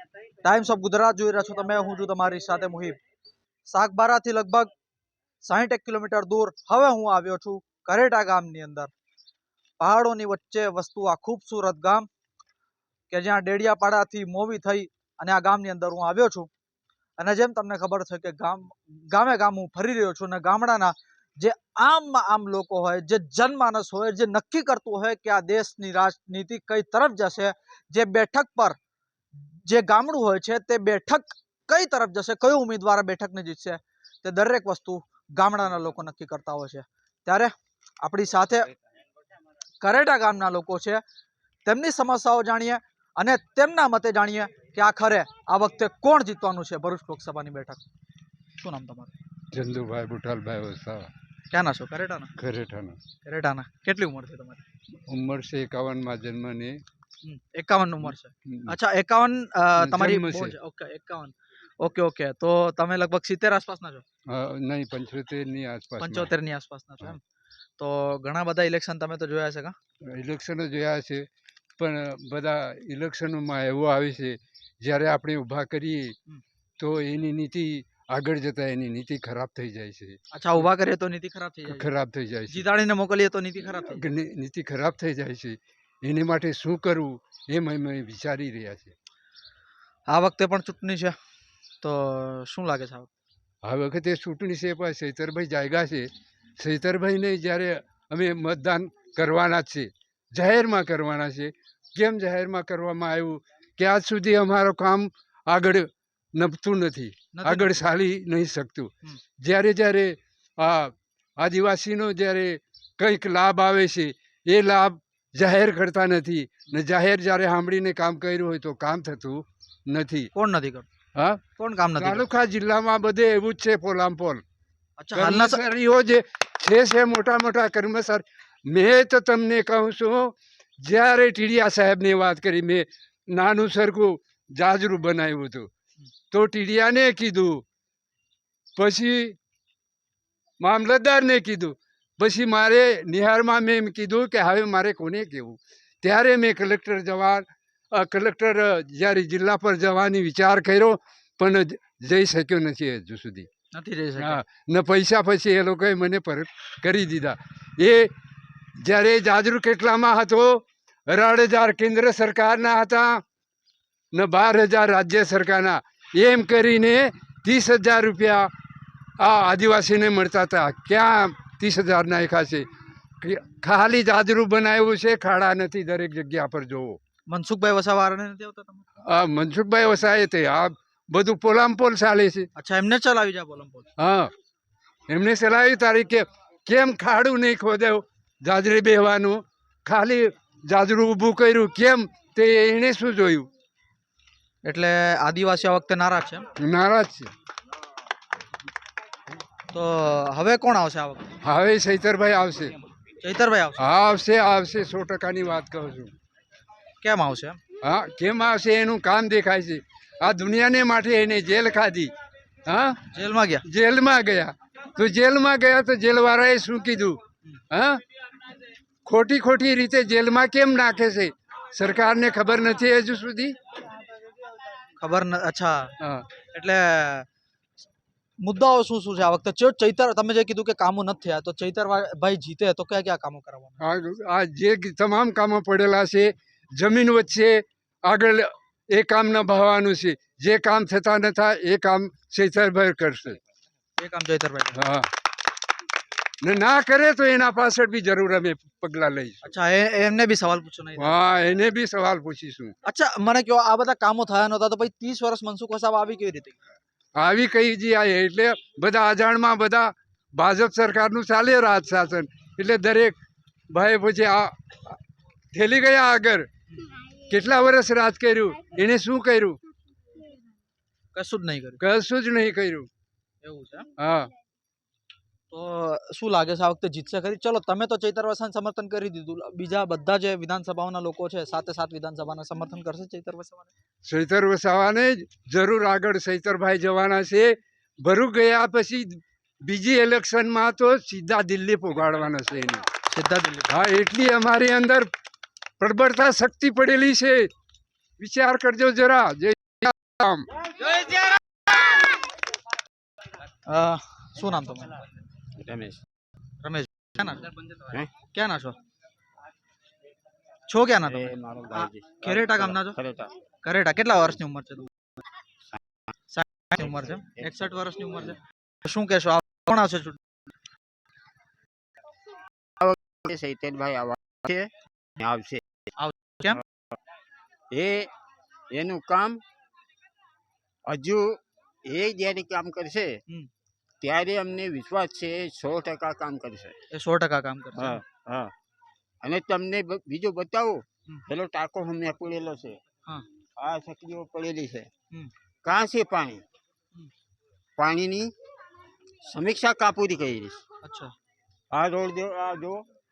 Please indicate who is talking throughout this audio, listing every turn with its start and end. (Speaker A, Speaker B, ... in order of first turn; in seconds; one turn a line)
Speaker A: 0.4-3.0
Speaker A: 3.7-4.7
Speaker A: 5.4-8.9
Speaker A: 9.8-12.1
Speaker A: 13.1-16.5
Speaker A: 17.2-28.8
Speaker A: 29.3-38.7
Speaker A: 39.8-41.0
Speaker A: 41.6-47.8
Speaker A: 48.6-49.1
Speaker B: 49.5-51.1
Speaker A: 51.5-52.3
Speaker B: 52.4-53.0
Speaker A: 53.2-54.6
Speaker B: 55.1-56.8
Speaker A: 57.2-64.0
Speaker B: 58.5-58.7
Speaker B: 59.8-60.5
Speaker B: 64.3-66.3
Speaker A: 66.0-67.2
Speaker A: 67.8-69.7
Speaker B: 70.1-71.2
Speaker B: 71.8-76.1
Speaker B: 76.8-80.2
Speaker A: 80.3-81.9
Speaker B: 81.7-82.6
Speaker A: 82.5-84.0
Speaker B: 84.0-88.9
Speaker A: 90.1-91.1
Speaker A: 91.8-93.1
Speaker B: 93.6-96.1
Speaker B: 96.6-120.3
Speaker A: 107.3-107.8
Speaker A: 120.3-120.8
Speaker A: 121.6-122.2
Speaker B: 122.0-124.4
Speaker A: 125.0-125.6
Speaker B: 125.1-135.7
Speaker B: 136.3-137.6
Speaker B: 138.8-139.3
Speaker B: 140.6-153.5
Speaker A: 153.7-154.4
Speaker B: 154.2-158.1
Speaker B: 158.8-163.2
Speaker B: 164.1-168.5
Speaker B: 169.2-172.7
Speaker B: 173.2-177.0
Speaker A: 177.3-178.8
Speaker B: 179.1-182.5
Speaker A: 182.6-183.9
Speaker B: 184.0-184.3
Speaker B: 185.1-193.5
Speaker A: 194.6-196.4
Speaker B: 196.6-197.3
Speaker A: 199.7-201.3
Speaker B: 201.4-202.7
Speaker A: 203.2-203.8
Speaker B: 203.8-206.1
Speaker A: 207.0-207.6
Speaker B: 207.8-212.1
Speaker B: 212.7-213.0
Speaker A: 213.1-213.6
Speaker B: 213.7-217.2
Speaker B: 217.7-218.0
Speaker B: 219.0-223.5
Speaker A: 225.0-225.9
Speaker B: 226.0-226.3
Speaker A: 226.5-227.3
Speaker A: 228.4-233.8
Speaker B: 233.8-243.4
Speaker A: 244.0-244.8
Speaker B: 244.7-245.1
Speaker B: 246.4-249.4
Speaker A: 249.4-251.1
Speaker B: 251.0-252.7
Speaker A: 252.8-256.6
Speaker B: 257.1-263.2
Speaker B: 263.7-265.0
Speaker B: 265.5-266.4
Speaker B: 267.3-269.6
Speaker A: 271.1-271.8
Speaker B: 271.8-272.9
Speaker A: 273.4-273.9
Speaker B: 274.0-274.3
Speaker A: 275.5-283.7
Speaker B: 284.0-292.8
Speaker A: 293.1-293.7
Speaker B: 293.7-295.1
Speaker B: 295.8-297.5
Speaker B: 298.2-300.4
Speaker A: 303.7-305.0
Speaker C: 305.6-306.0
Speaker A: 306.6-307.5
Speaker A: 308.3-308.8
Speaker A: 310.7-313.0
Speaker C: 311.0-313.3
Speaker A: 313.6-314.9
Speaker A: 316.3-320.2
Speaker C: 322.8-325.6
Speaker A: 326.0-326.6
Speaker C: 327.7-328.1
Speaker C: 328.7-329.4
Speaker C: 330.9-333.2
Speaker C: 334.0-336.8
Speaker A: 336.9-338.0
Speaker C: 337.7-338.5
Speaker C: 339.2-342.8
Speaker C: 343.6-344.9
Speaker C: 345.6-346.4
Speaker C: 347.8-348.3
Speaker C: 349.2-350.6
Speaker A: 350.8-351.1
Speaker C: 351.7-352.8